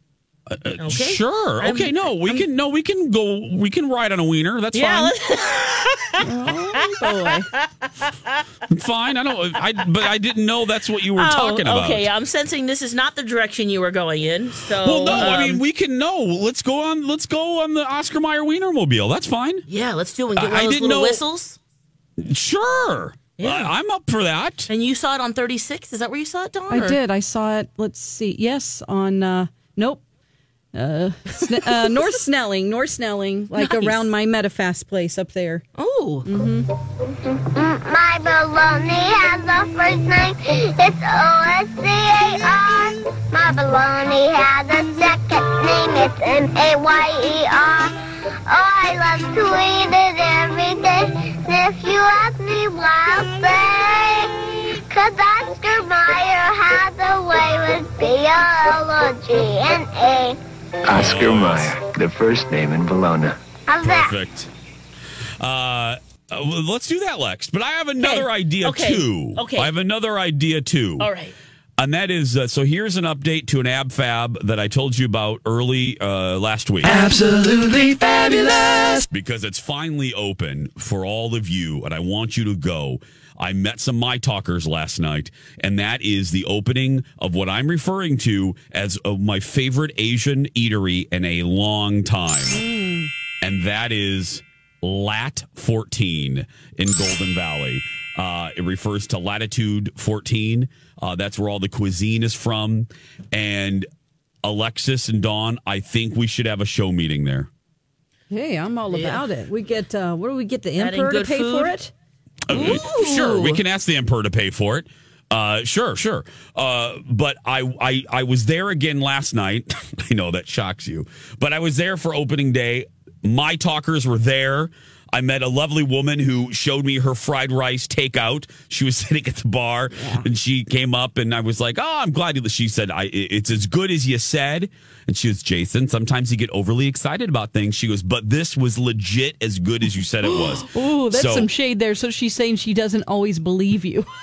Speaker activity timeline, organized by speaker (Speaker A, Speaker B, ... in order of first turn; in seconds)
Speaker A: 0.5-5.1, 8.7-12.1, 14.7-19.7, 20.4-21.2, 22.2-24.7, 60.9-61.7, 63.8-64.5, 65.4-71.1, 71.8-77.0, 79.1-92.6, 93.4-103.9, 104.4-107.5, 112.5-141.5
Speaker B: 0.8-2.5, 4.7-6.3, 6.8-8.4, 11.2-15.6, 19.7-21.6, 23.4-23.7, 24.7-27.0, 33.5-34.1, 35.8-36.3, 68.0-69.7, 71.0-71.3, 108.9-109.2, 110.8-111.8, 112.5-113.6
Speaker C: 6.2-7.5, 26.7-30.0, 30.7-35.6, 36.2-36.7, 92.5-93.1, 108.3-111.9, 130.0-130.2, 140.3-144.1
Speaker D: 37.4-60.4, 63.7-64.1
Speaker E: 60.9-63.4
Speaker F: 76.8-79.0